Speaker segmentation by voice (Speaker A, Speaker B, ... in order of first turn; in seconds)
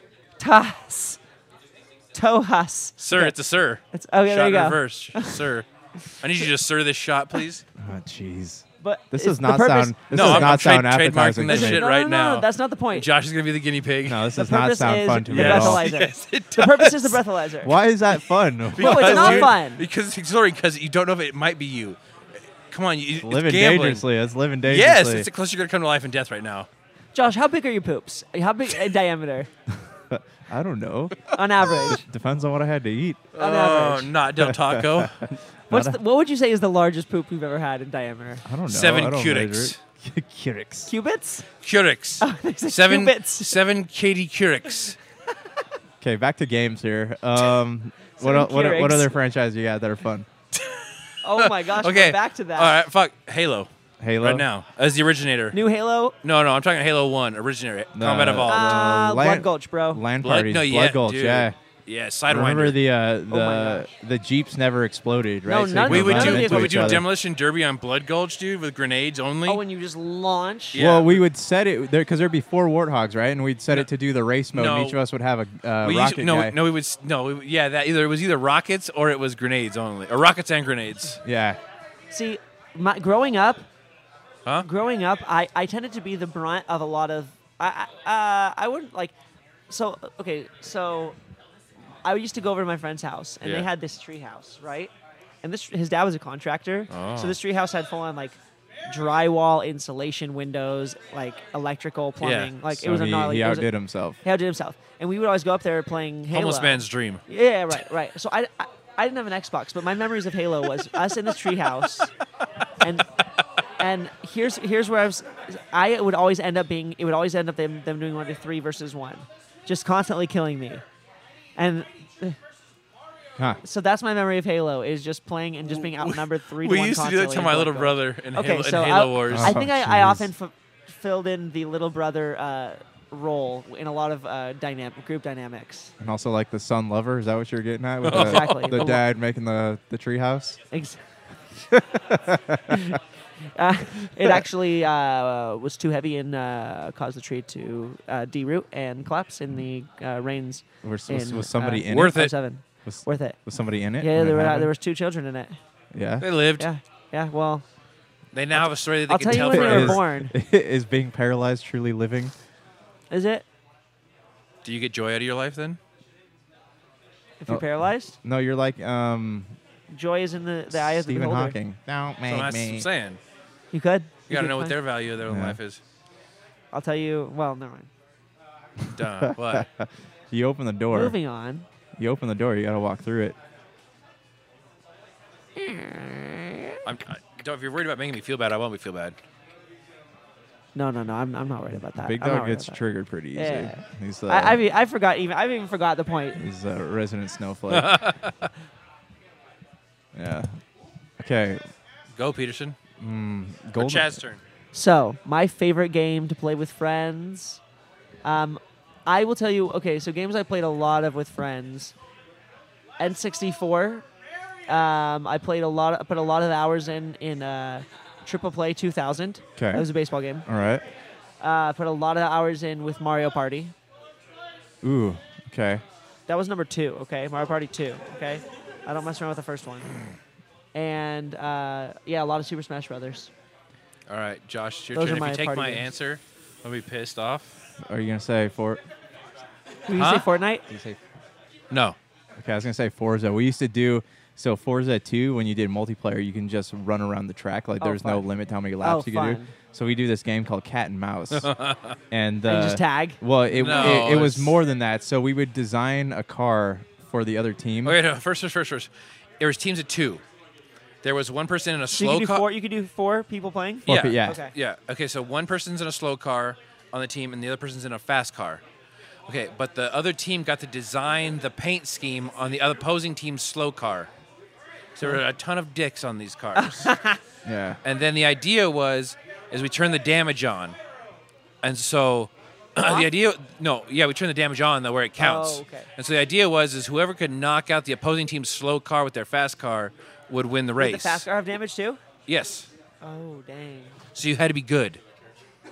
Speaker A: 0.4-1.2, 2.1-3.4, 3.9-5.4, 8.8-10.5, 11.5-13.1, 14.3-17.7, 18.8-19.8, 27.1-29.5, 31.3-32.0, 33.4-34.1, 35.7-38.4, 40.9-41.5, 42.2-43.5, 48.2-49.2, 51.2-52.8, 55.5-56.1, 58.4-60.0, 63.3-63.9, 65.5-67.0, 69.5-70.8, 82.1-83.6, 84.6-89.1, 89.7-91.2, 92.0-94.9, 95.4-103.7, 104.2-112.1, 112.8-113.1, 113.8-120.8, 121.5-122.4, 123.6-135.9, 138.1-139.0, 140.7-141.0, 142.7-143.0, 143.5-153.4, 154.0-155.6, 156.6-157.6, 159.1-160.3, 163.1-163.4, 167.4-168.2, 169.9-171.6, 173.7-174.7, 176.7-177.9, 180.9-181.7, 185.6-186.8, 190.7-192.8, 193.3-196.4, 204.7-207.6, 208.2-211.9, 213.0-214.0, 214.7-220.4, 221.4-223.7, 226.3-229.9, 230.7-233.3, 234.9-235.8, 239.9-240.6, 247.8-248.2, 248.8-249.5, 252.4-253.2, 261.9-264.5, 276.6-277.2, 282.8-283.1, 285.2-285.9, 290.8-292.0, 293.0-294.0
Speaker B: 3.0-5.7, 6.2-7.6, 10.1-14.3, 15.3-17.2, 18.7-22.0, 22.7-24.0, 24.6-26.7, 33.3-35.3, 38.7-39.8, 41.6-45.0, 50.5-53.7, 54.2-55.6, 56.2-58.8, 60.2-62.8, 65.8-69.6, 70.7-71.2, 74.5-75.0, 75.8-81.2, 96.9-97.4, 102.2-102.5, 106.3-107.2, 125.7-129.6, 138.0-139.0, 151.9-152.3, 156.2-156.7, 158.3-160.0, 164.6-165.8, 172.2-173.2, 174.3-175.8, 178.9-179.7, 186.8-189.2, 197.7-198.5, 202.2-202.8, 203.8-204.4, 234.1-237.5, 239.9-240.3, 241.7-242.0, 251.3-252.0, 253.5-254.6, 257.8-258.9, 259.4-260.2, 261.0-262.4, 263.9-268.6, 269.3-274.1, 274.9-276.9, 277.8-280.8, 281.6-291.2, 292.3-292.7, 294.1-295.0
Speaker C: 7.8-11.8, 14.1-15.9, 17.6-19.5, 23.2-25.3, 30.1-33.2, 34.4-35.1, 35.7-36.0, 38.4-40.9, 46.0-50.3, 54.0-54.5, 57.9-61.5, 62.3-67.1, 70.7-76.6, 81.2-81.6, 102.7-104.2, 129.3-130.3, 136.0-140.6, 141.7-142.8, 150.8-154.7, 155.9-156.3, 159.3-162.3, 167.5-169.6, 170.7-172.9, 175.2-175.6, 178.8-181.2, 182.0-183.3, 191.9-194.6, 196.3-198.1, 200.1-200.6, 201.2-201.6, 203.0-204.2, 219.6-219.9, 220.4-220.8, 224.8-225.8, 237.8-238.8, 240.7-241.0, 242.4-251.5, 252.1-258.0, 263.9-264.4, 277.4-277.8